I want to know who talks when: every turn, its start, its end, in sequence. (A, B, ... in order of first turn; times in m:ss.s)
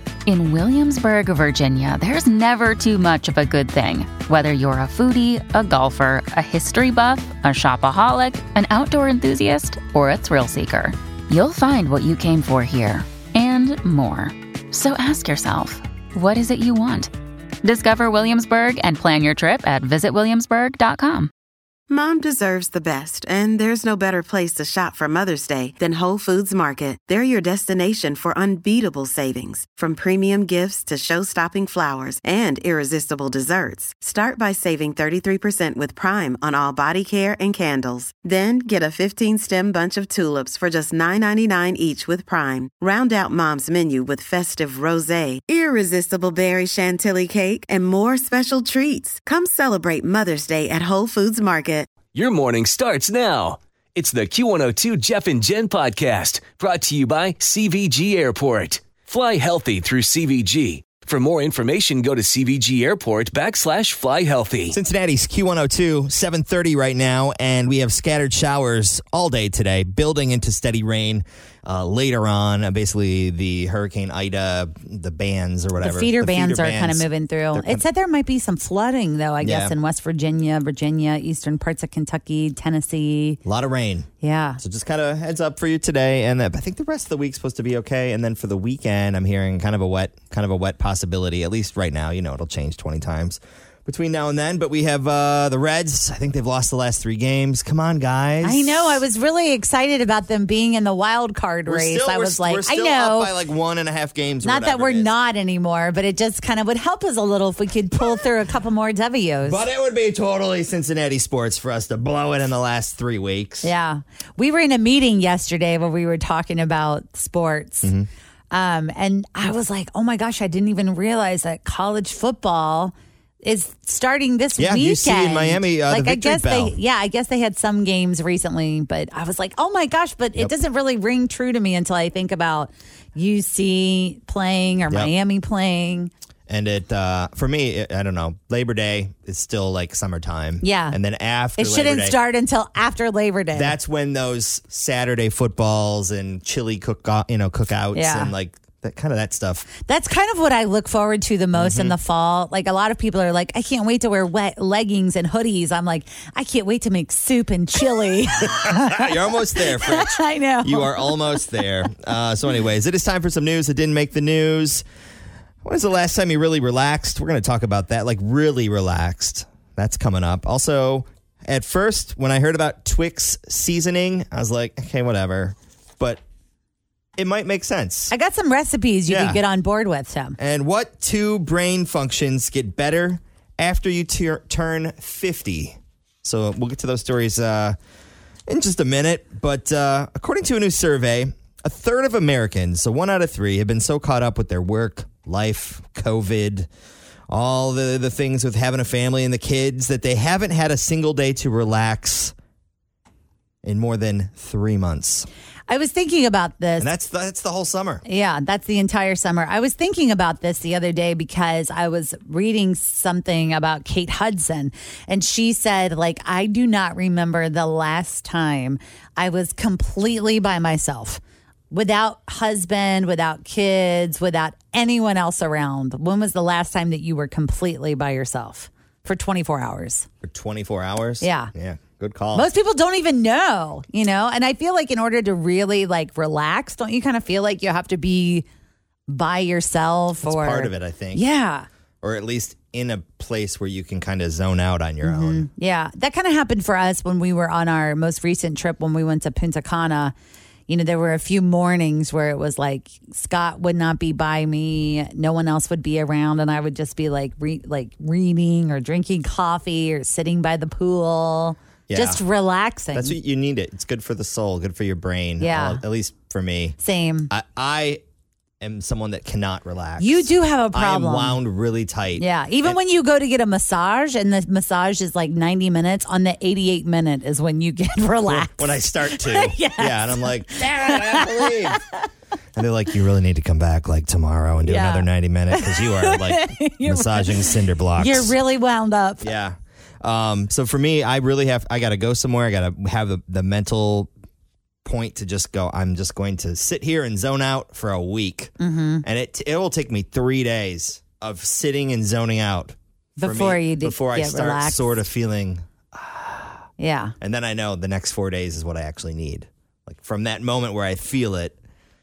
0:00.3-0:13.7 A
0:02.1-0:03.1 B
0:03.7-0:04.2 B
0:10.6-0:10.9 B
0:13.4-0:14.2 B
0:14.7-0:15.4 A
0:14.8-0:17.0 B
0:16.2-0:17.0 A
0:17.6-0:21.3 B
0:18.4-0:18.8 A
0:21.9-0:51.9 C
0:52.1-1:04.8 D
1:04.7-1:17.8 E
1:15.8-1:23.4 A
1:19.4-1:19.8 E
1:23.4-1:24.1 E
1:24.2-1:24.6 A
1:24.6-1:39.0 E
1:38.4-1:43.3 A
1:41.7-1:45.1 E
1:44.4-1:49.6 A
1:49.4-1:53.7 E
1:53.6-1:57.9 A
1:58.5-2:16.1 A
2:04.6-2:06.8 E
2:16.5-2:22.2 E
2:20.6-2:21.0 A
2:21.6-2:23.8 A
2:23.5-2:29.7 E
2:27.9-2:28.3 A
2:29.8-2:41.5 A
2:31.5-2:32.0 E
2:38.6-2:44.8 E
2:45.6-2:56.2 E
2:57.2-2:58.1 E
2:58.1-3:00.4 A
2:59.1-2:59.4 E
3:00.4-3:07.8 E
3:08.5-3:16.7 E
3:17.3-3:22.3 E
3:23.6-3:25.3 E
3:25.7-3:26.9 A
3:26.8-3:28.0 E
3:28.0-3:50.1 A
3:50.2-3:52.5 E
3:51.2-3:51.5 A
3:52.3-3:58.5 A
3:59.1-4:01.7 A
4:00.2-4:01.2 E
4:02.0-4:05.5 E
4:05.0-4:10.2 A
4:10.7-4:23.2 A
4:21.9-4:22.2 E
4:22.9-4:26.8 E
4:25.4-4:25.8 A
4:26.8-4:27.3 A
4:27.3-4:28.0 E
4:28.6-4:32.8 E
4:30.0-4:31.4 A
4:32.2-4:41.8 A
4:38.2-4:41.8 E
4:42.6-4:48.4 E
4:44.6-4:47.4 A
4:48.0-4:49.3 A
4:49.2-4:54.1 E
4:54.8-5:06.6 E
4:58.6-4:59.0 A
5:03.2-5:05.0 A
5:06.8-5:07.1 A
5:07.2-5:11.6 E